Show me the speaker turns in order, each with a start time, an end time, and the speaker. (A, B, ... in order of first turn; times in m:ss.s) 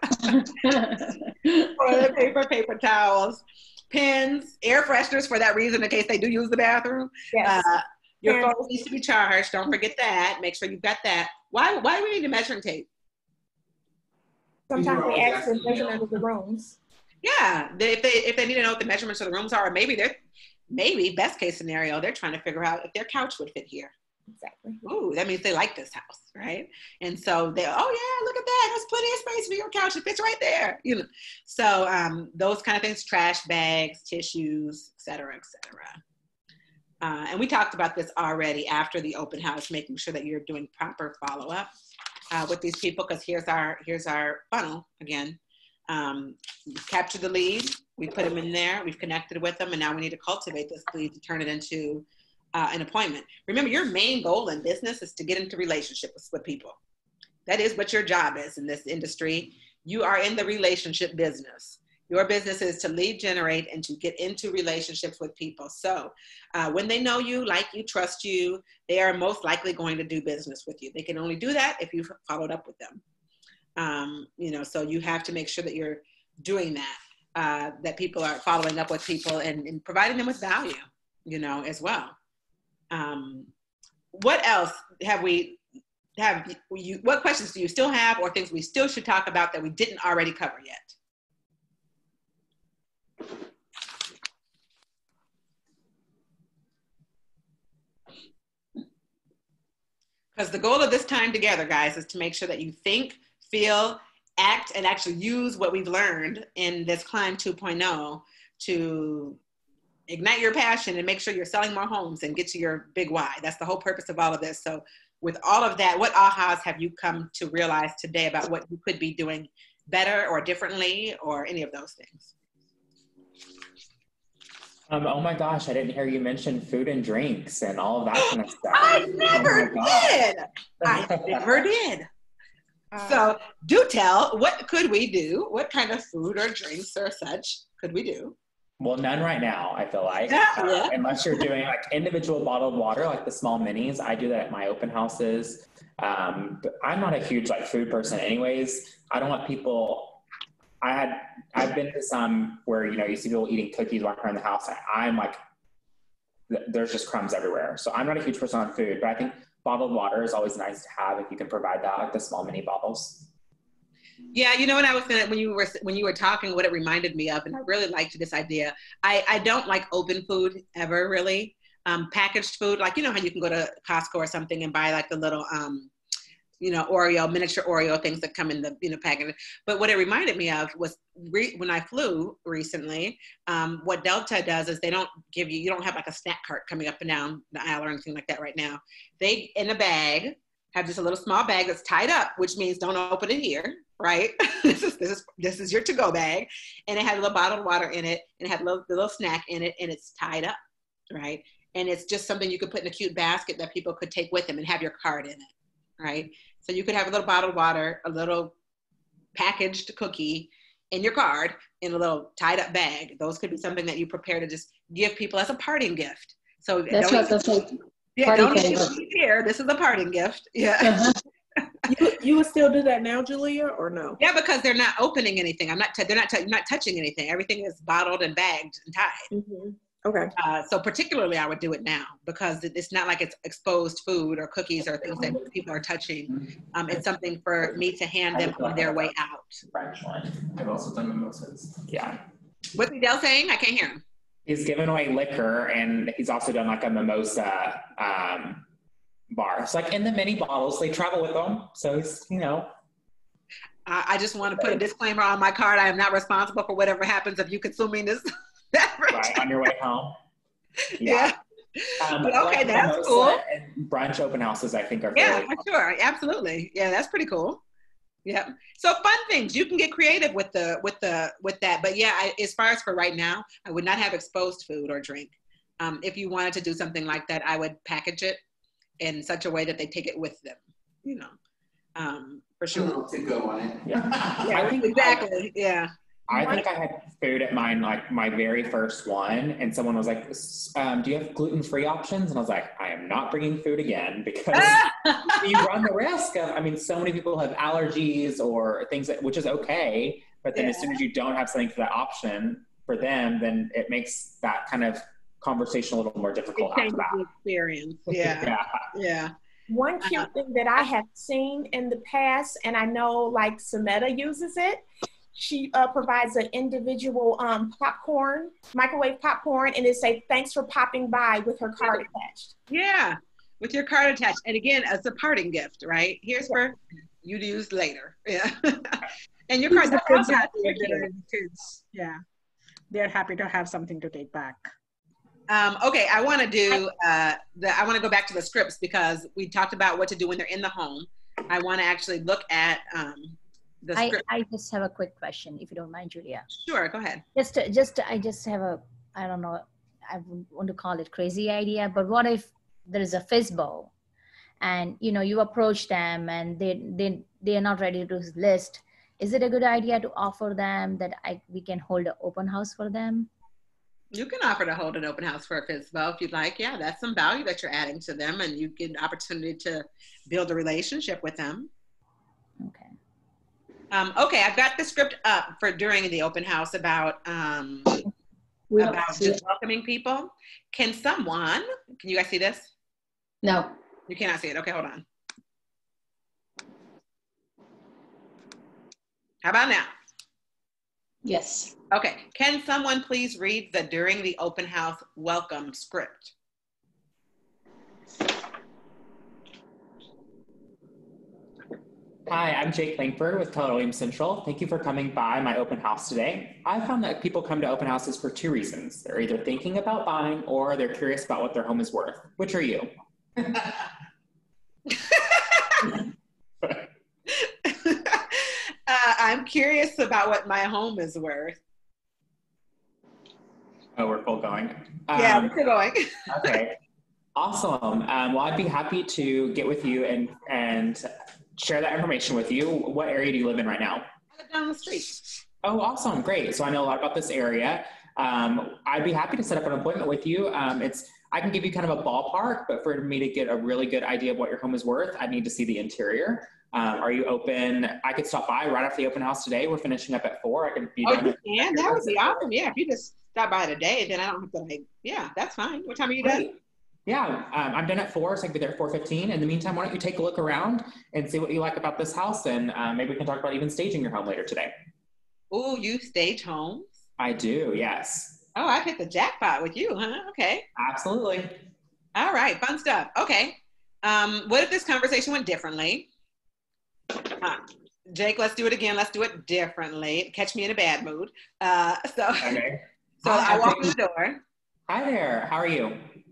0:00.2-0:01.7 A
0:01.8-0:12.9 B
0:07.3-0:07.6 C
0:08.3-0:08.7 C
0:14.7-0:16.8 C
0:14.8-0:16.1 D
0:17.2-0:20.2 B
0:20.7-0:23.9 B
0:24.4-0:24.8 C
0:24.8-0:36.0 B
0:37.0-0:41.7 B
0:42.3-0:56.8 B
0:57.5-1:13.0 B
1:13.8-1:22.2 B
1:22.9-1:23.5 B
1:24.1-1:25.6 B
1:26.2-1:31.0 B
1:40.4-1:49.4 B
1:50.1-2:02.3 B
2:04.9-2:10.2 E
2:08.2-2:12.1 B
2:08.8-2:09.6 C
2:10.8-2:11.6 E
2:12.9-2:13.4 C
2:13.0-2:18.4 B
2:18.8-2:30.2 E
2:20.3-2:21.4 B
2:30.8-2:35.4 E
2:36.5-2:43.3 E
2:44.3-2:55.9 B
2:56.6-3:20.6 B
3:21.1-3:28.5 B
3:29.4-3:37.4 B
3:36.9-3:38.9 A
3:38.2-3:41.1 B
3:40.8-3:41.2 A
3:41.9-3:44.2 F
3:44.2-3:49.3 B
3:49.3-3:50.3 F
3:50.4-3:59.6 B
3:58.3-3:59.1 E
3:59.7-4:00.4 E
4:00.4-4:01.8 D
4:01.9-4:02.2 E
4:02.8-4:04.0 B
4:04.5-4:08.7 E
4:09.3-4:12.7 E
4:13.9-4:19.4 B
4:19.1-4:20.2 E
4:21.0-4:21.3 E
4:21.0-4:23.4 B
4:22.0-4:25.6 E
4:25.2-4:27.6 B
4:28.2-4:38.4 B
4:39.0-4:41.3 B
4:42.0-4:43.0 B
4:42.7-4:44.6 D
4:43.8-4:45.2 E
4:44.4-4:45.9 B
4:46.3-5:07.2 E
4:46.3-4:46.6 C
4:54.5-4:55.6 B
5:00.6-5:01.0 B
5:06.6-5:09.3 B
5:08.1-5:08.9 E
5:09.7-5:22.5 C
5:10.0-5:10.3 B
5:22.7-5:31.1 B
5:29.7-5:32.2 G
5:32.9-5:34.7 G
5:35.5-5:44.2 B
5:44.0-5:46.5 H
5:46.5-5:47.2 B
5:47.4-5:53.9 H
5:54.6-6:03.3 H
6:04.1-6:11.7 B
6:12.6-6:12.9 H
6:13.9-6:18.0 B
6:18.7-6:19.4 A
6:18.8-6:22.7 B
6:23.4-6:23.7 A
6:24.1-6:25.0 B
6:29.4-6:29.9 B
6:31.2-6:31.7 A
6:31.9-6:36.3 B
6:42.3-6:52.9 E
6:55.1-6:55.8 B
6:56.6-6:56.9 E
6:57.4-7:01.6 B
7:04.0-7:05.6 E
7:05.1-7:06.6 B
7:06.3-7:06.8 E
7:07.4-7:14.0 E
7:14.4-7:15.2 B
7:15.6-7:32.4 E
7:31.0-7:36.5 B
7:36.2-7:36.5 E
7:37.1-7:44.7 E
7:45.5-7:46.9 B
7:47.2-7:48.4 E
7:48.6-7:50.6 B
7:50.8-7:51.6 E
7:52.2-7:56.1 B
7:57.4-8:02.6 B
8:02.4-8:04.0 E
8:03.2-8:04.4 B
8:04.9-8:06.1 E